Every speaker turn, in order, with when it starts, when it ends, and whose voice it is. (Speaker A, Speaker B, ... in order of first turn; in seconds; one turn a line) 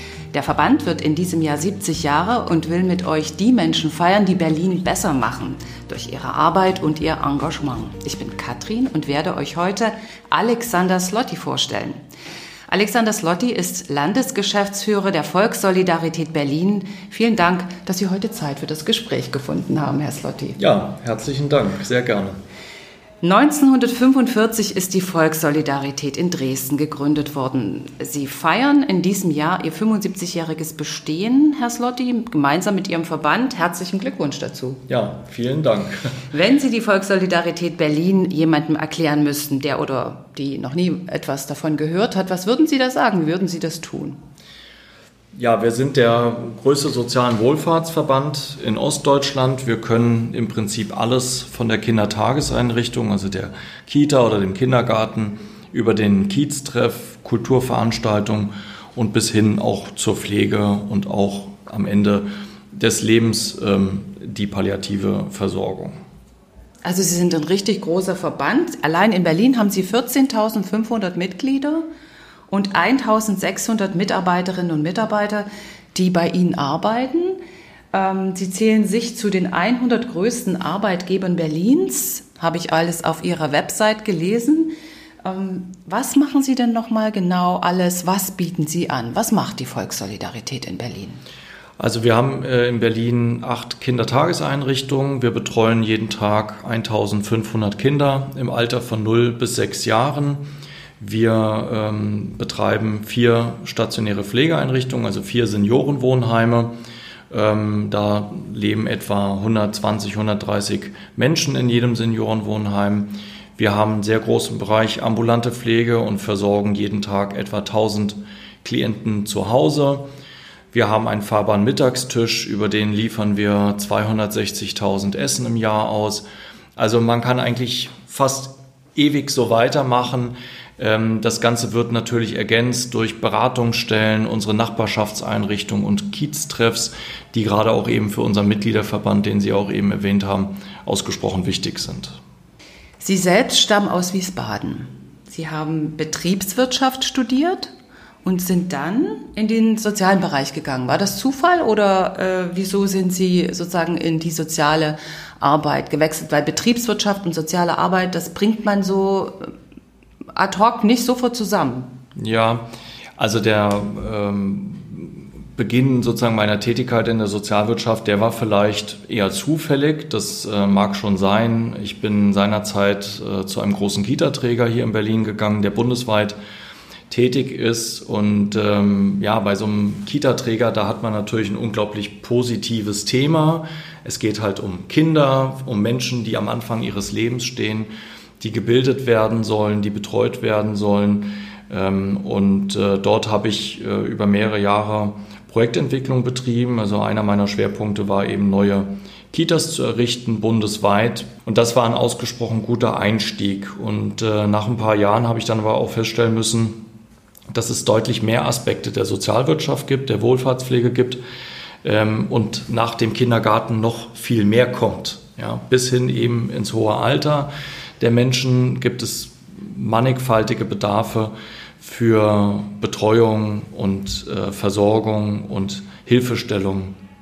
Speaker A: 0.3-12.0
Speaker A: 12.7-20.6
Speaker B: 20.6-22.4
Speaker A: 23.2-34.8
Speaker B: 34.9-36.1
Speaker A: 36.3-44.2
Speaker B: 45.3-66.0
Speaker A: 66.8-71.8
Speaker A: 72.5-77.4
Speaker A: 77.9-91.2
Speaker B: 91.8-100.4
Speaker B: 101.0-106.7
Speaker B: 107.3-120.0
Speaker B: 120.7-126.2
Speaker B: 126.8-142.2
Speaker A: 143.0-147.7
Speaker A: 148.2-159.5
Speaker A: 160.4-161.9
Speaker B: 162.2-162.7
Speaker B: 163.2-176.4
Speaker B: 177.1-206.8
Speaker B: 207.5-211.2
Speaker B: 211.8-226.9